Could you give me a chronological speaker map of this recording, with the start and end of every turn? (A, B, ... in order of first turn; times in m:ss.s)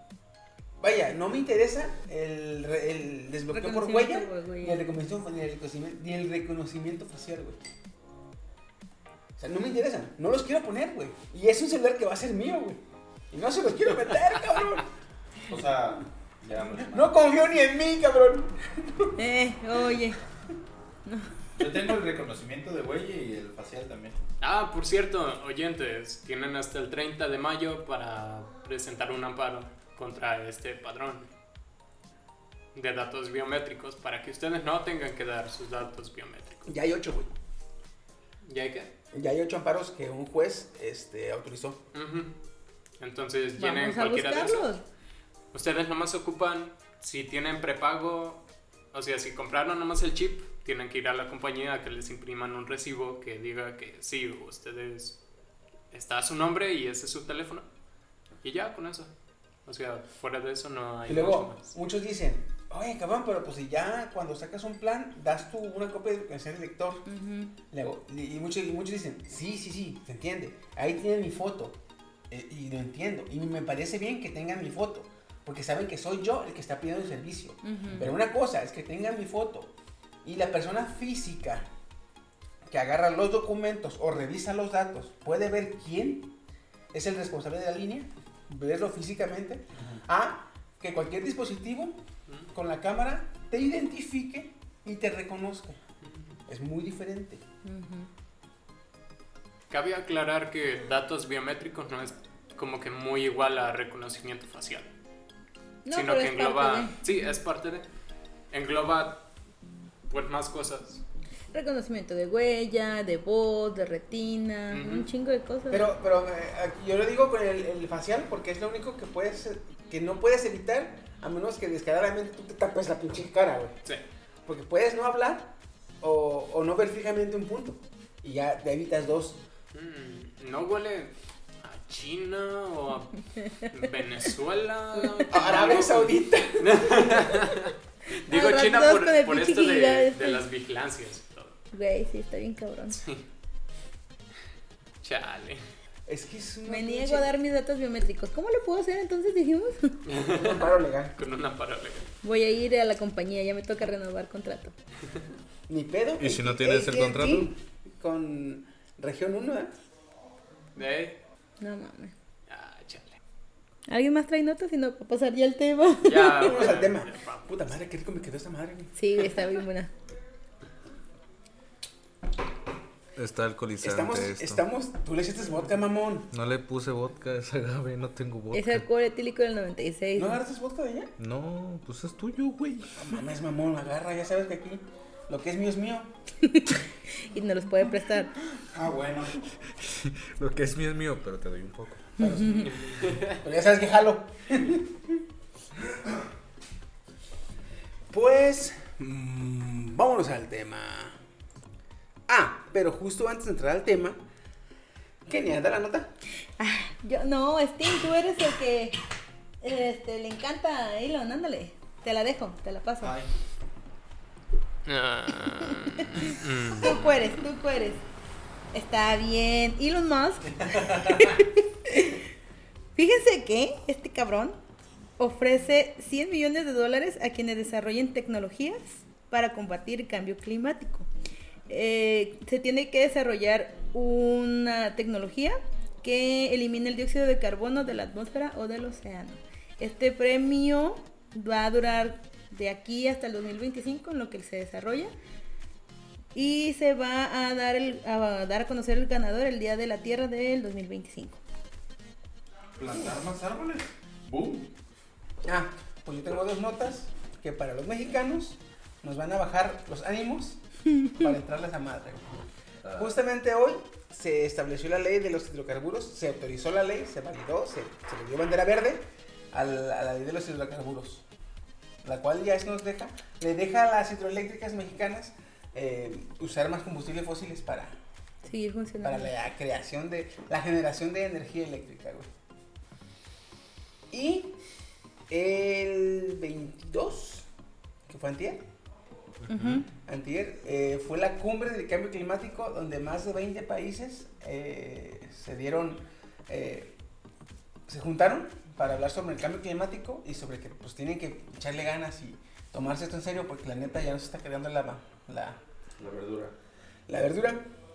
0:00.8-0:07.6 A
0:03.5-0:04.8 B
0:09.4-0:14.9 A
0:15.5-0:17.1 C
0:16.8-0:19.1 A
0:19.2-0:20.2 B
0:21.6-0:24.2 C
0:24.4-0:31.3 D
0:32.7-0:36.7 D
0:36.7-0:37.3 A
0:38.4-0:38.9 D
0:39.1-0:41.8 A
0:41.9-0:42.3 D
0:43.0-0:44.7 D
0:43.6-0:44.8 B
0:45.5-0:55.2 D
0:55.9-0:57.6 D
0:58.4-0:59.1 D
0:59.6-1:01.7 D
1:01.1-1:07.0 A
1:07.0-1:07.5 B
1:07.7-1:11.8 A
1:12.3-1:19.7 A
1:17.6-1:18.0 B
1:20.2-1:21.7 A
1:22.7-1:26.3 A
1:26.9-1:32.0 A
1:32.5-1:35.8 A
1:36.5-1:37.4 A
1:37.6-1:38.1 B
1:39.7-1:44.9 D
1:45.8-1:47.0 B
1:45.9-1:47.8 D
1:48.5-1:49.2 D
1:50.1-1:51.0 D
1:51.5-1:55.9 B
1:54.7-1:55.1 D
1:55.7-2:03.7 A
2:04.4-2:09.4 A
2:09.7-2:13.1 D
2:13.7-2:21.6 D
2:15.3-2:17.6 A
2:18.3-2:20.4 B
2:21.7-2:23.0 B
2:23.0-2:23.2 D
2:25.0-2:25.6 D
2:26.1-2:27.3 A
2:26.6-2:30.0 B
2:30.0-2:32.1 D
2:30.2-2:31.1 A
2:32.2-2:34.7 B
2:35.7-2:39.7 A
2:36.2-2:37.5 E
2:40.7-2:41.2 D
2:41.6-2:42.1 B
2:42.5-2:43.2 D
2:43.9-2:46.5 B
2:46.0-2:47.6 D
2:46.3-2:48.9 A
2:48.9-2:49.9 B
2:53.2-2:54.6 E
2:53.8-2:56.3 A
2:56.3-2:58.8 E
2:58.5-3:00.4 B
3:00.2-3:01.1 A
3:01.2-3:03.0 E
3:03.0-3:06.1 A
3:06.4-3:08.3 B
3:08.6-3:09.4 C
3:09.8-3:12.2 E
3:12.2-3:15.2 A
3:12.2-3:12.6 B
3:18.1-3:21.2 A
3:22.3-3:24.2 A
3:25.2-3:26.1 A
3:26.6-3:29.0 B
3:29.6-3:33.1 B
3:33.0-3:33.3 C
3:34.8-3:37.0 D
3:36.8-3:38.0 B
3:38.7-3:42.2 B
3:40.6-3:41.4 C
3:43.0-3:44.6 B
3:45.2-3:51.1 B
3:51.7-4:05.1 B
4:06.3-4:11.4 B
4:12.8-4:14.7 C
4:15.4-4:22.2 A
4:22.8-4:23.1 C
4:22.9-4:31.2 A
4:32.0-4:38.0 A
4:38.4-4:39.3 B
4:39.0-4:42.3 A
4:44.1-4:44.5 A
4:45.3-4:47.4 A
4:48.1-4:48.6 A
4:49.5-4:49.8 E
4:49.5-4:49.8 B
4:50.0-4:56.9 A
4:57.9-5:05.6 A
5:06.0-5:06.5 C
5:07.1-5:07.6 A